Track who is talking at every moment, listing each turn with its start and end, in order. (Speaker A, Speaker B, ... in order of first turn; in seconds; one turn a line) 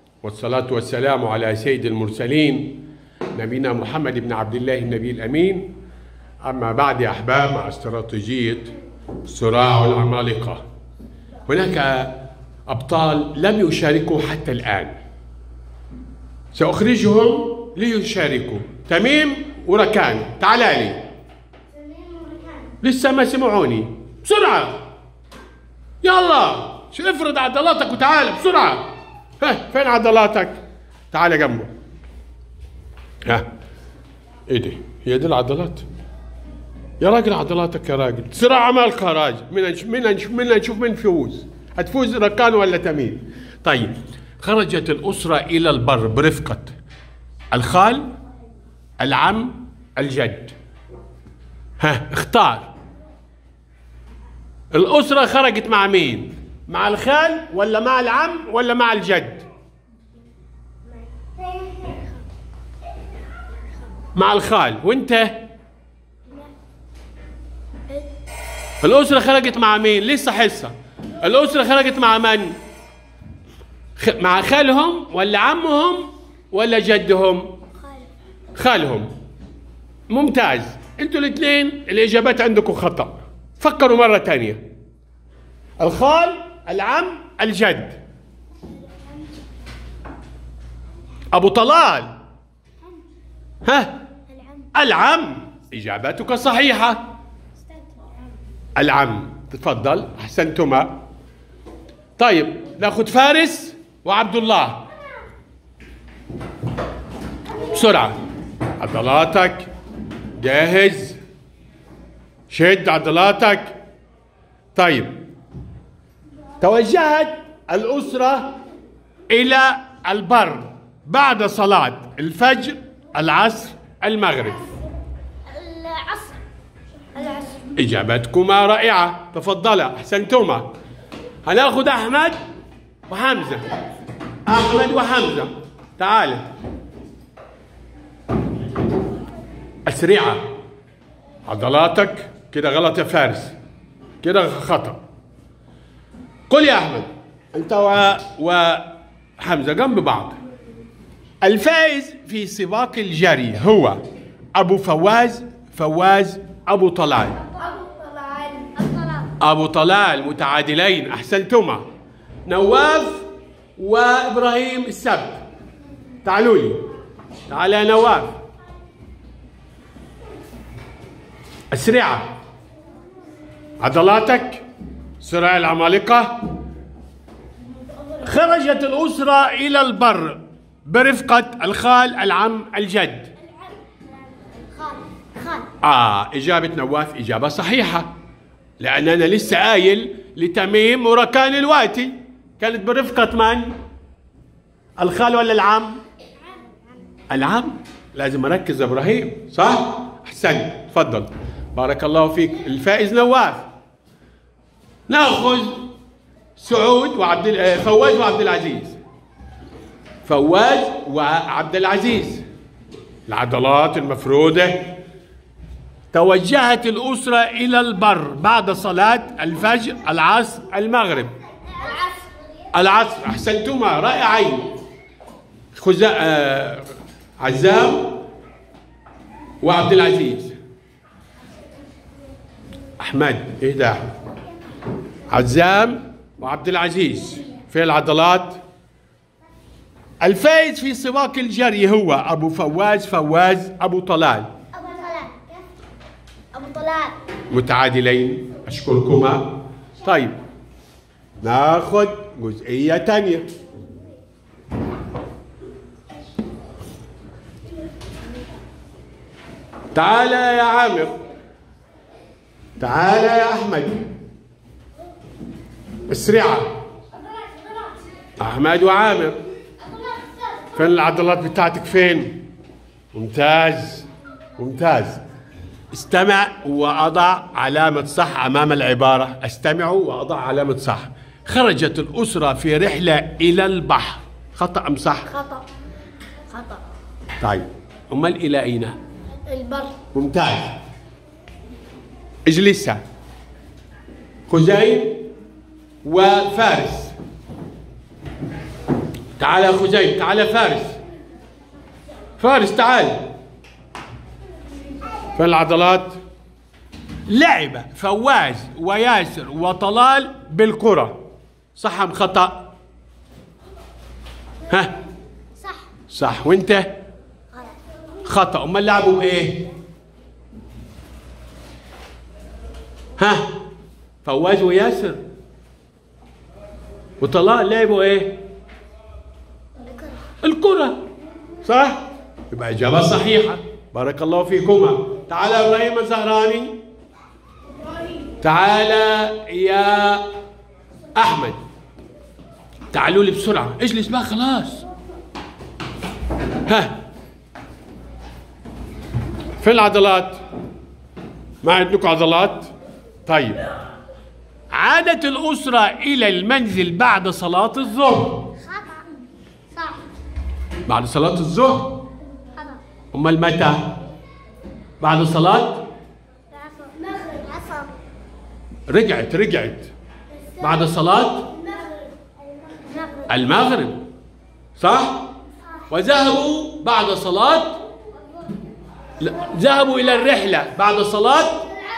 Speaker A: 0.2-5.7
Speaker A: 6.4-8.7
Speaker A: 9.2-10.6
Speaker A: 11.5-12.2
Speaker A: 12.7-15.0
Speaker A: 16.5-21.1
Speaker B: 21.9-22.6
Speaker A: 22.8-24.8
Speaker A: 26.0-28.9
Speaker A: 29.4-30.6
Speaker A: 31.1-31.7
Speaker A: 34.5-35.9
Speaker A: 37.0-46.8
Speaker A: 47.5-48.1
Speaker A: 49.0-50.5
Speaker A: 51.8-52.7
Speaker A: 54.7-59.5
Speaker A: 64.1-65.4
Speaker A: 68.8-72.6
Speaker A: 74.0-77.5
Speaker A: 78.5-79.1
Speaker A: 80.1-84.6
Speaker A: 85.8-88.0
Speaker A: 91.3-92.1
Speaker A: 93.6-94.0
Speaker A: 94.7-97.1
Speaker A: 98.8-101.0
Speaker A: 102.2-104.9
Speaker A: 107.7-108.2
Speaker A: 108.8-109.7
Speaker A: 110.4-111.2
Speaker A: 112.5-113.8
Speaker A: 114.8-115.2
Speaker A: 116.6-118.5
Speaker A: 119.3-124.6
Speaker B: 125.5-126.4
Speaker B: 127.2-127.6
Speaker A: 127.7-130.7
Speaker A: 131.4-132.4
Speaker A: 133.1-133.7
Speaker A: 134.5-136.5
Speaker A: 139.8-140.5
Speaker A: 141.5-143.6
Speaker A: 144.2-145.0
Speaker A: 146.5-150.4
Speaker A: 151.4-154.0
Speaker A: 154.6-157.4
Speaker B: 157.6-159.3
Speaker A: 159.4-161.8
Speaker A: 162.5-165.4
Speaker A: 166.2-166.8
Speaker A: 167.5-168.3
Speaker A: 171.7-172.3
Speaker A: 173.8-174.6
Speaker A: 175.2-176.5
Speaker A: 178.2-183.3
Speaker B: 184.6-185.7
Speaker A: 185.8-188.1
Speaker A: 188.8-193.8
Speaker A: 195.0-196.0
Speaker A: 197.3-203.7
Speaker A: 205.1-205.9
Speaker A: 206.6-209.0
Speaker A: 210.2-212.4
Speaker A: 213.3-215.0
Speaker A: 216.1-221.3
Speaker B: 221.8-222.3
Speaker A: 222.7-224.7
Speaker A: 225.7-228.2
Speaker A: 229.6-230.6
Speaker A: 233.0-234.1
Speaker A: 235.3-238.6
Speaker A: 240.2-244.5
Speaker B: 244.7-245.6
Speaker B: 246.5-247.2
Speaker A: 247.5-250.4
Speaker A: 251.4-253.5
Speaker A: 259.9-261.2
Speaker A: 262.8-264.1
Speaker A: 266.1-266.7
Speaker A: 268.4-269.4
Speaker A: 270.7-272.4
Speaker A: 273.1-275.2
Speaker A: 275.9-285.4
Speaker B: 285.4-285.6
Speaker B: 286.5-286.8
Speaker A: 287.4-289.0
Speaker B: 289.5-290.0
Speaker A: 290.1-290.8
Speaker A: 292.5-293.0
Speaker A: 294.5-295.2
Speaker A: 296.0-297.1
Speaker A: 299.4-301.0
Speaker A: 302.4-303.3
Speaker A: 305.4-306.2
Speaker A: 307.3-311.2
Speaker A: 311.8-312.7
Speaker A: 314.7-314.9
Speaker B: 315.6-315.9
Speaker A: 316.1-316.9
Speaker A: 318.2-319.7
Speaker A: 323.2-323.5
Speaker A: 324.2-325.2
Speaker A: 327.2-328.4
Speaker A: 330.4-331.0
Speaker A: 331.6-336.8
Speaker A: 338.4-340.3
Speaker A: 341.1-341.6
Speaker A: 342.9-344.8
Speaker A: 346.7-347.0
Speaker A: 349.6-350.4
Speaker A: 351.6-352.7
Speaker A: 353.3-353.6
Speaker A: 354.7-358.5
Speaker B: 358.6-359.1
Speaker B: 359.7-360.0
Speaker A: 360.9-362.0
Speaker A: 363.1-363.9
Speaker A: 365.0-365.9
Speaker B: 366.5-367.9
Speaker A: 368.9-369.9
Speaker A: 370.6-371.5
Speaker B: 372.8-373.3
Speaker A: 373.3-374.0
Speaker A: 374.8-375.3
Speaker A: 375.9-377.8
Speaker A: 379.2-381.6